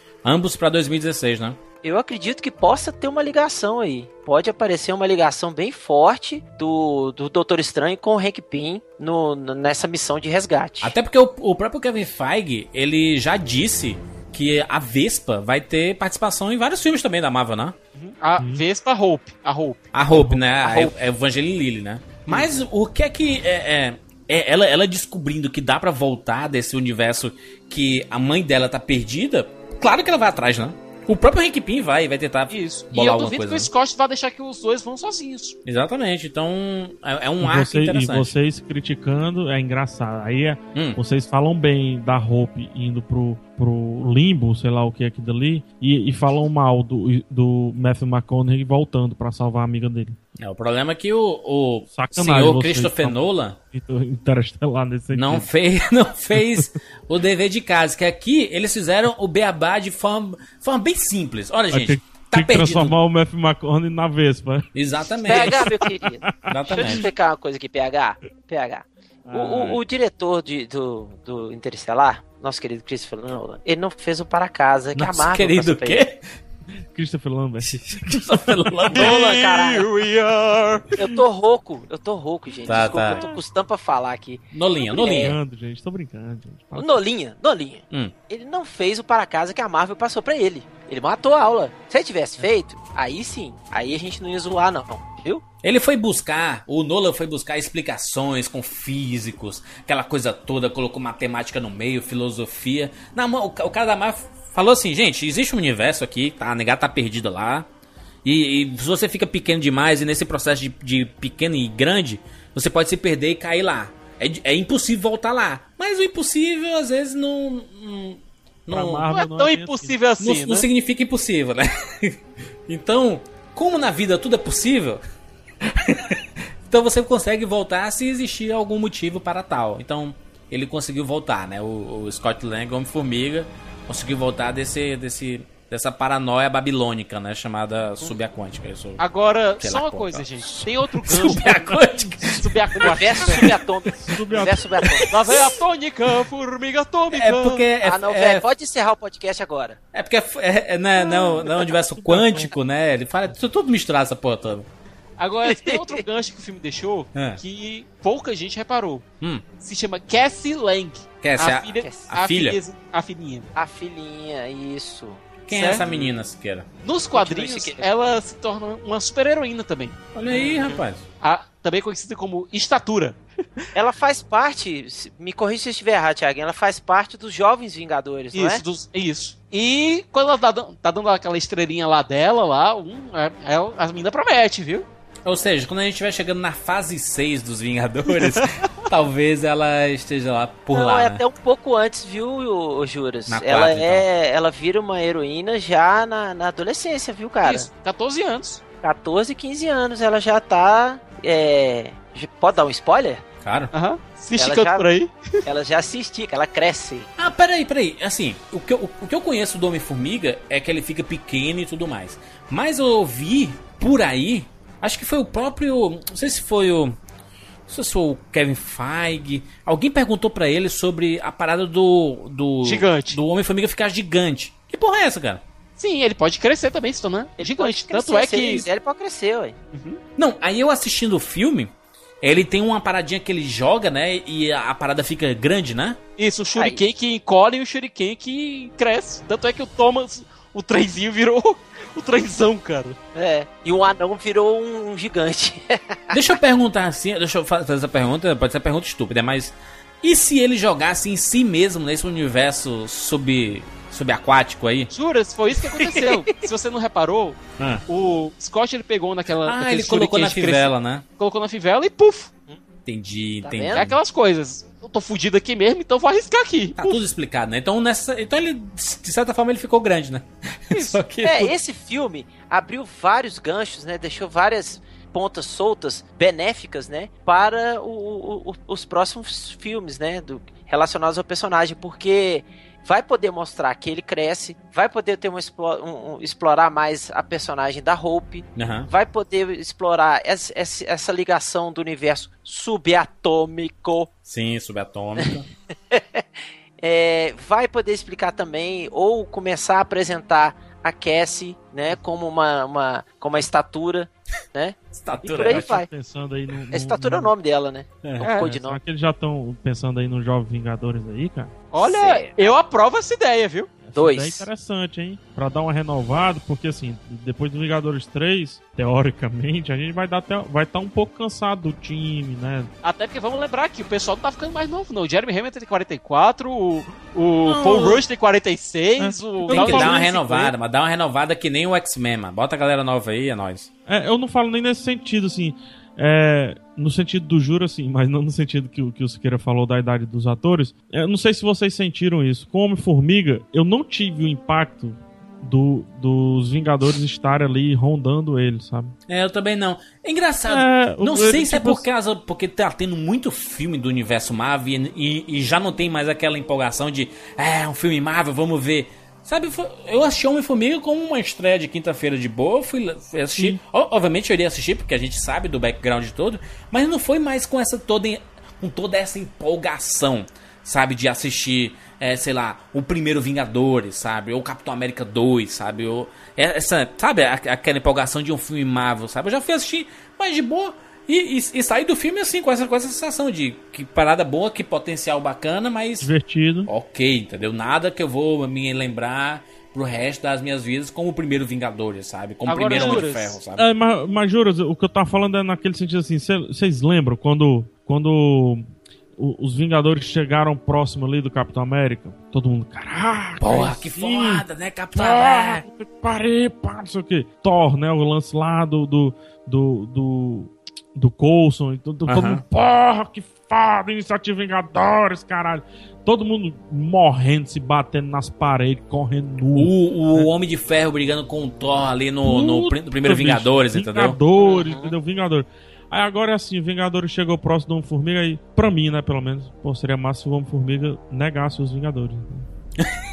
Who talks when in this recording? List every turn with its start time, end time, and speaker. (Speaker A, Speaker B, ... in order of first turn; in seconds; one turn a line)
Speaker A: 0.2-1.6
Speaker B: 1.8-10.9
Speaker A: 10.8-17.8
Speaker C: 17.9-19.9
Speaker D: 18.4-18.6
Speaker A: 19.9-33.7
Speaker D: 20.2-20.4
Speaker B: 20.6-21.0
Speaker C: 32.5-35.6
Speaker A: 35.6-38.4
Speaker D: 37.4-50.2
Speaker A: 50.4-53.6
Speaker D: 51.9-53.2
Speaker D: 53.7-55.5
Speaker A: 55.1-63.0
Speaker D: 56.4-56.7
Speaker D: 61.7-64.7
Speaker A: 64.8-65.7
Speaker B: 65.2-76.0
Speaker D: 65.3-67.0
Speaker A: 66.5-67.1
Speaker D: 69.3-69.8
Speaker A: 75.0-76.2
Speaker D: 76.9-77.8
Speaker A: 77.7-79.1
Speaker B: 78.9-79.9
Speaker C: 78.9-80.9
Speaker B: 81.0-85.4
Speaker A: 82.7-83.2
Speaker D: 82.9-83.4
Speaker A: 84.5-85.3
Speaker D: 84.9-87.0
Speaker B: 86.8-95.4
Speaker A: 95.6-107.7
Speaker A: 108.2-119.1
Speaker D: 118.7-120.0
Speaker C: 119.1-120.7
Speaker A: 120.2-125.0
Speaker A: 125.6-139.0
Speaker C: 139.0-141.8
Speaker A: 139.6-143.4
Speaker D: 141.1-142.3
Speaker C: 142.3-143.5
Speaker B: 142.8-145.5
Speaker D: 144.0-144.7
Speaker C: 145.1-147.7
Speaker A: 147.1-148.4
Speaker B: 147.8-149.8
Speaker A: 149.9-154.7
Speaker D: 152.0-152.5
Speaker C: 155.2-163.5
Speaker B: 155.5-156.0
Speaker A: 161.2-162.6
Speaker B: 161.8-162.1
Speaker B: 163.6-165.2
Speaker A: 165.5-166.7
Speaker C: 165.5-165.9
Speaker C: 166.8-170.0
Speaker B: 167.1-167.9
Speaker A: 170.1-171.1
Speaker B: 170.4-170.8
Speaker C: 171.2-173.2
Speaker B: 173.8-178.6
Speaker C: 178.3-184.9
Speaker A: 185.2-191.2
Speaker B: 190.7-197.7
Speaker A: 193.3-194.1
Speaker C: 197.4-198.6
Speaker B: 198.8-203.2
Speaker A: 203.4-203.7
Speaker C: 203.7-205.4
Speaker B: 204.4-204.9
Speaker B: 205.4-207.1
Speaker A: 207.2-217.0
Speaker A: 217.7-225.4
Speaker C: 222.6-223.2
Speaker C: 225.8-228.7
Speaker B: 227.4-229.6
Speaker C: 229.7-230.0
Speaker A: 230.2-236.0
Speaker C: 236.2-243.0
Speaker B: 236.6-236.8
Speaker B: 243.2-246.2
Speaker A: 246.1-254.9
Speaker C: 254.9-262.3
Speaker B: 255.9-256.4
Speaker A: 257.6-257.8
Speaker A: 259.4-261.1
Speaker A: 262.9-264.0
Speaker B: 263.4-263.9
Speaker C: 263.7-267.0
Speaker A: 266.8-271.5
Speaker C: 270.7-271.0
Speaker B: 271.2-294.1
Speaker A: 288.6-288.9
Speaker A: 294.3-295.5
Speaker B: 295.9-296.2
Speaker B: 296.8-304.8
Speaker A: 304.9-305.7
Speaker D: 305.2-307.3
Speaker B: 305.4-305.9
Speaker B: 306.7-308.8
Speaker C: 308.2-308.5
Speaker D: 308.3-311.5
Speaker C: 311.7-313.7
Speaker B: 311.8-312.5
Speaker D: 313.8-322.7
Speaker B: 313.9-314.5
Speaker C: 322.8-330.5
Speaker D: 327.4-328.0
Speaker D: 329.0-330.0
Speaker A: 329.5-333.7
Speaker D: 333.9-348.9
Speaker A: 349.1-386.1
Speaker D: 350.5-351.9
Speaker D: 386.0-386.7
Speaker A: 386.7-393.6
Speaker C: 392.5-393.4
Speaker D: 392.7-393.0
Speaker D: 393.6-398.7
Speaker D: 399.2-420.3
Speaker A: 403.4-405.6
Speaker A: 412.1-412.4
Speaker A: 419.6-424.2
Speaker D: 422.2-432.5
Speaker B: 424.4-424.9